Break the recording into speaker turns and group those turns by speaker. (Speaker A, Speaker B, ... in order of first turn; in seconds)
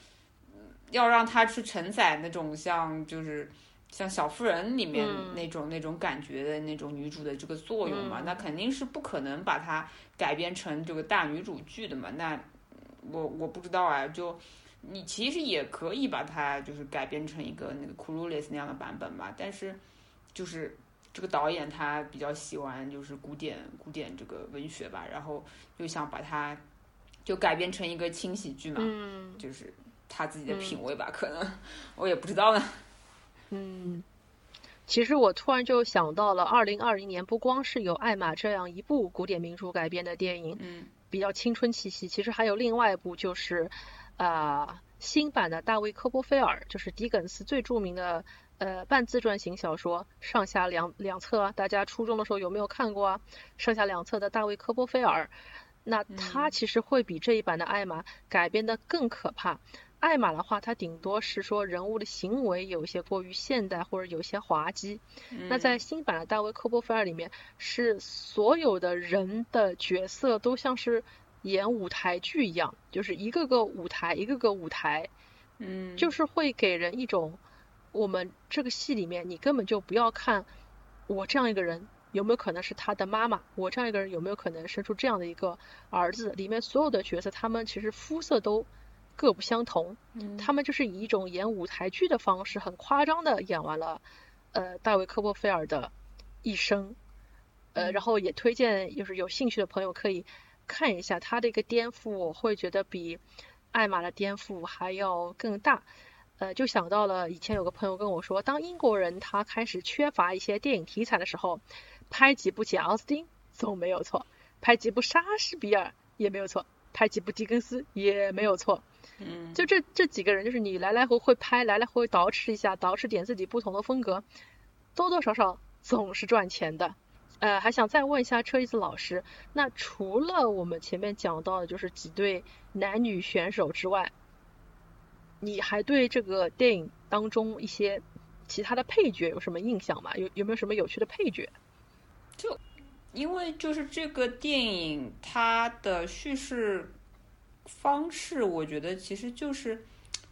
Speaker A: 0.5-19.8, 20.3-26.6, 27.2-32.8, 40.6-40.9, 56.1-56.5, 65.3-65.8, 75.6-76.1, 90.1-90.5, 97.8-98.0, 119.2-119.7, 143.1-146.9, 147.6-149.9
Speaker B: 4.9-5.4, 7.8-8.4, 28.8-29.4, 30.5-30.8, 33.5-34.0, 34.9-55.3, 55.8-75.1, 76.0-77.4, 77.9-80.5, 81.1-95.9, 96.4-97.0, 97.7-105.9, 106.4-118.8, 119.5-124.2, 125.0-134.1, 135.4-141.5